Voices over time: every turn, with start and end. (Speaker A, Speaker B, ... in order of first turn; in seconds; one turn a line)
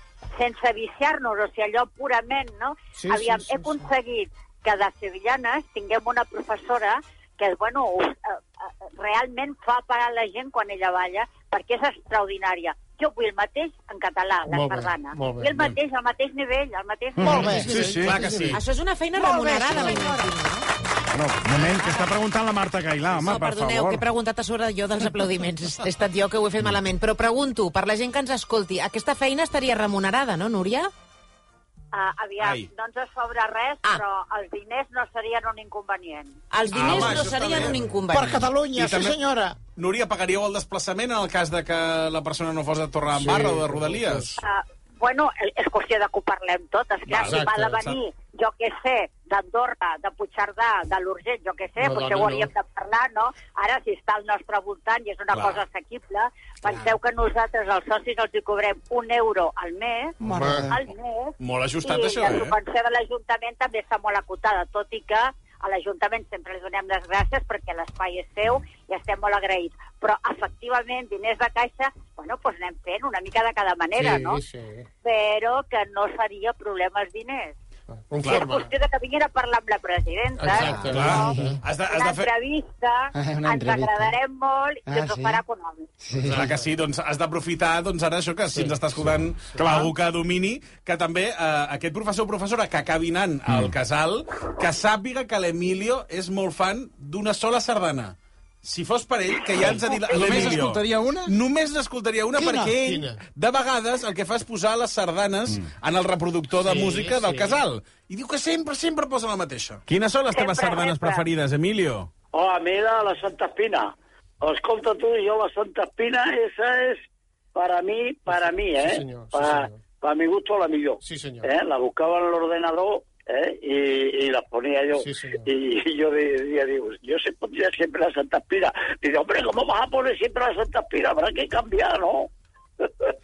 Speaker A: 0.4-8.4
Speaker B: 3.0-3.8
Speaker A: 9.0-17.5
Speaker B: 14.5-15.5
Speaker C: 17.2-18.2
Speaker D: 17.2-17.9
Speaker B: 17.4-18.6
Speaker E: 17.6-18.6
Speaker F: 18.5-20.7
Speaker D: 19.1-20.2
Speaker C: 21.1-24.1
Speaker F: 21.8-22.1
Speaker F: 23.2-30.9
Speaker A: 31.9-36.4
Speaker E: 32.4-32.6
Speaker F: 36.5-38.5
Speaker E: 36.7-37.8
Speaker D: 38.1-39.5
Speaker E: 38.7-39.2
Speaker E: 39.8-44.4
Speaker B: 43.1-44.3
Speaker A: 44.4-60.1
Speaker E: 47.1-48.0
Speaker B: 47.1-47.8
Speaker B: 51.8-52.5
Speaker E: 55.3-55.6
Speaker B: 60.2-60.7
Speaker D: 60.2-60.7
Speaker A: 60.7-74.4
Speaker E: 61.4-62.5
Speaker B: 73.9-74.9
Speaker A: 75.0-77.5
Speaker B: 78.1-78.7
Speaker A: 78.2-81.3
Speaker B: 80.4-81.6
Speaker D: 80.6-81.6
Speaker E: 80.9-82.3
Speaker A: 81.9-85.9
Speaker D: 83.1-84.1
Speaker D: 84.9-85.4
Speaker B: 86.2-86.6
Speaker E: 86.2-112.1
Speaker B: 88.5-89.6
Speaker C: 89.5-89.9
Speaker C: 93.5-93.7
Speaker C: 99.6-101.3
Speaker B: 100.2-100.6
Speaker D: 102.3-102.7
Speaker B: 102.8-103.2
Speaker B: 106.6-107.6
Speaker A: 110.3-111.2
Speaker G: 112.3-117.0
Speaker G: 117.5-133.1
Speaker B: 118.3-119.8
Speaker B: 121.0-121.5
Speaker B: 125.0-125.5